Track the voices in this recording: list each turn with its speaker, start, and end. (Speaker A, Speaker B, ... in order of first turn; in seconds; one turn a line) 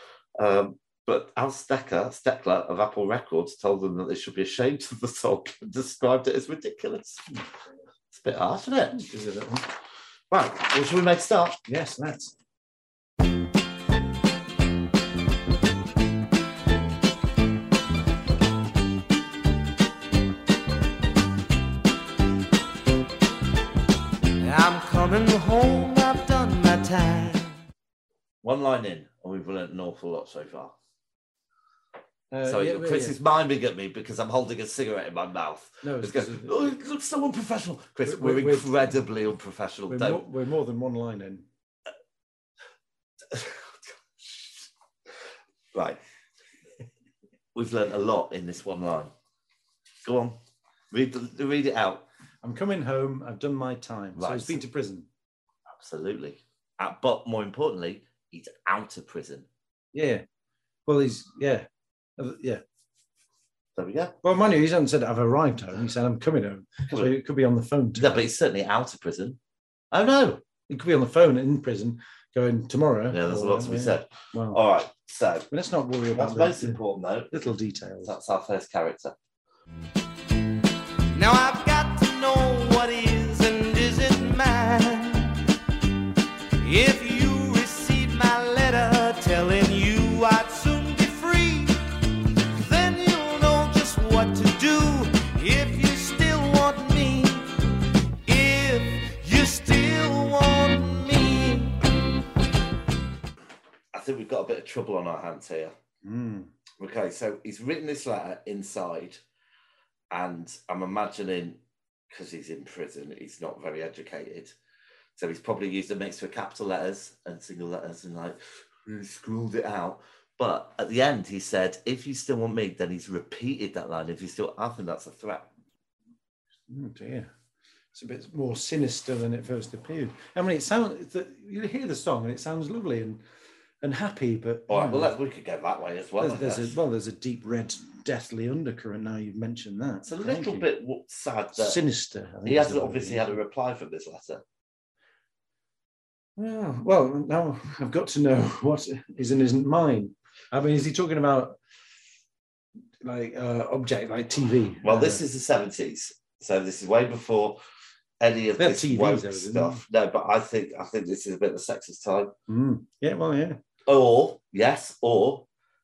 Speaker A: 0.4-7.2
Speaker A: 8.1-9.0
Speaker B: 8.9-9.7
Speaker A: 10.3-11.6
Speaker B: 11.7-12.3
Speaker C: 24.4-27.6
Speaker A: 28.4-30.7
Speaker B: 32.3-33.2
Speaker A: 32.5-40.2
Speaker B: 35.8-36.7
Speaker B: 38.0-38.7
Speaker B: 39.9-41.5
Speaker A: 43.3-44.7
Speaker A: 45.7-46.0
Speaker A: 47.5-49.1
Speaker A: 50.0-50.4
Speaker A: 50.9-52.0
Speaker B: 52.4-55.1
Speaker A: 54.1-54.6
Speaker A: 55.7-59.5
Speaker B: 59.9-60.2
Speaker B: 60.9-62.6
Speaker A: 63.8-64.1
Speaker B: 64.2-68.2
Speaker A: 68.0-69.4
Speaker A: 69.9-70.4
Speaker B: 70.7-74.6
Speaker A: 73.1-75.5
Speaker B: 75.5-78.2
Speaker A: 76.1-79.2
Speaker C: 81.1-85.4
Speaker C: 86.6-91.8
Speaker C: 92.5-97.5
Speaker C: 98.2-101.8
Speaker A: 103.9-105.7
Speaker B: 106.0-106.5
Speaker A: 106.8-109.2
Speaker A: 110.1-114.5
Speaker A: 115.2-125.5
Speaker B: 126.7-127.3
Speaker B: 127.9-133.2
Speaker B: 133.8-135.1
Speaker A: 134.7-136.8
Speaker B: 136.2-140.7
Speaker A: 140.0-141.8
Speaker B: 141.5-143.4
Speaker A: 142.4-144.4
Speaker B: 146.4-151.6
Speaker B: 153.0-155.2
Speaker A: 154.8-157.6
Speaker A: 158.2-162.3
Speaker B: 158.6-159.8
Speaker B: 162.5-163.6
Speaker A: 163.8-165.4